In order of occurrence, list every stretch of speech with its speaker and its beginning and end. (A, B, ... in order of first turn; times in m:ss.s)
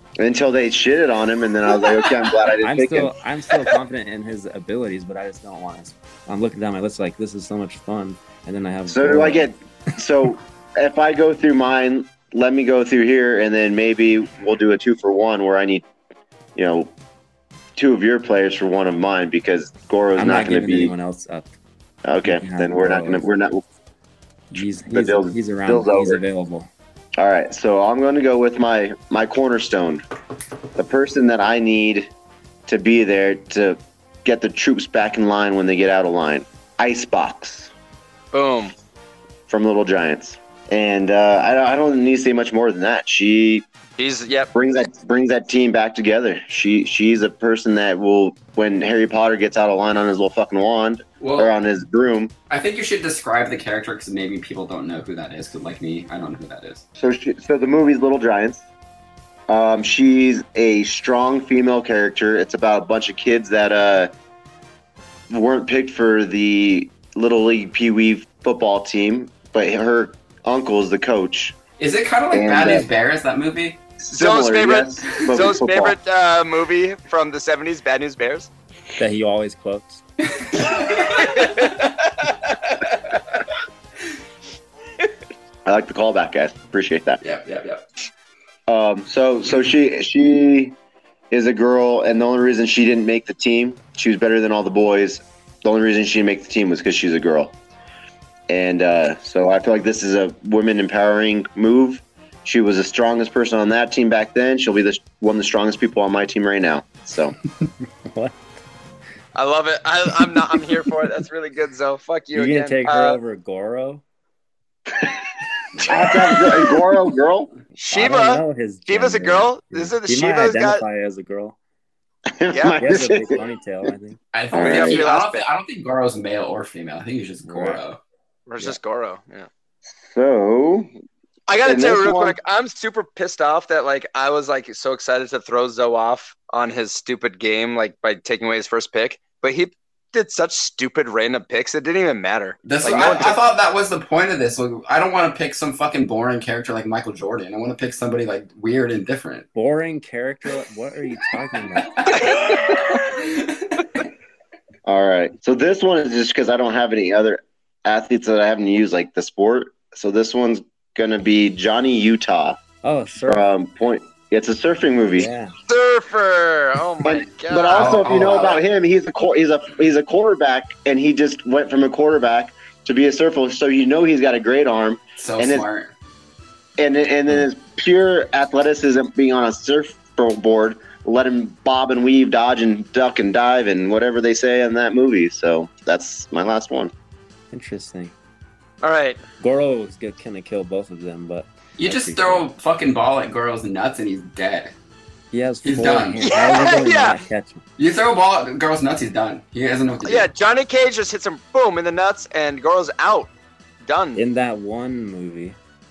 0:00.2-0:03.1 A
0:02.6-0:09.5 B
0:08.9-0:15.8 A
0:16.6-0:16.9 A
0:17.8-0:20.9 A
0:20.2-0:21.5 B
0:22.0-0:23.6 A
0:22.2-0:23.3 B
0:24.5-0:26.7 B
0:24.9-0:26.2 A
0:27.2-0:30.0 A
0:30.8-0:32.1 A
0:32.7-0:37.7 A
0:38.3-0:38.7 C
0:39.5-0:43.7 A
0:44.0-0:44.5 C
0:44.5-0:52.3 A
0:51.2-0:51.5 D
0:52.5-0:56.8 D
0:57.0-0:58.6 A
0:59.5-1:04.1 A
1:05.3-1:11.6 A
1:11.8-1:13.8 D
1:12.3-1:12.9 A
1:14.0-1:16.0 A
1:14.1-1:18.5 C
1:19.0-1:20.0 B
1:20.4-1:21.5 D
1:20.9-1:23.2 C
1:25.7-1:27.2 A
1:27.2-1:27.8 D
1:28.7-1:30.8 A
1:31.3-1:37.6 A
1:38.5-1:47.4 A
1:48.0-1:48.5 B
1:49.4-1:53.2 C
1:52.3-1:54.0 B
1:55.8-1:57.5 A
1:57.8-2:00.8 C
1:57.9-2:01.6 B
2:02.3-2:03.4 A
2:02.5-2:02.9 C
2:02.8-2:04.2 B
2:04.3-2:08.0 D
2:04.5-2:05.0 A
2:04.6-2:05.5 C
2:07.5-2:07.8 B
2:08.5-2:09.5 C
2:09.9-2:10.9 A
2:11.5-2:23.4 C
2:11.6-2:12.4 A
2:22.6-2:29.5 D
2:29.5-2:32.2 B
2:32.0-2:33.8 D
2:32.2-2:32.9 C
2:34.8-2:42.6 A
2:42.8-2:43.5 B
2:43.3-2:45.3 A
2:45.2-2:45.5 B
2:45.7-2:48.1 C
2:47.0-2:55.7 A
2:47.7-2:48.6 D
2:55.2-2:55.9 D
2:56.8-3:06.9 A
3:07.5-3:08.1 B
3:08.8-3:09.2 C
3:09.4-3:12.5 B
3:11.8-3:14.7 D
3:15.3-3:17.6 B
3:15.6-3:16.4 D
3:16.2-3:17.2 C
3:17.8-3:20.3 D
3:20.1-3:23.3 C
3:23.8-3:24.2 C
3:24.2-3:25.6 B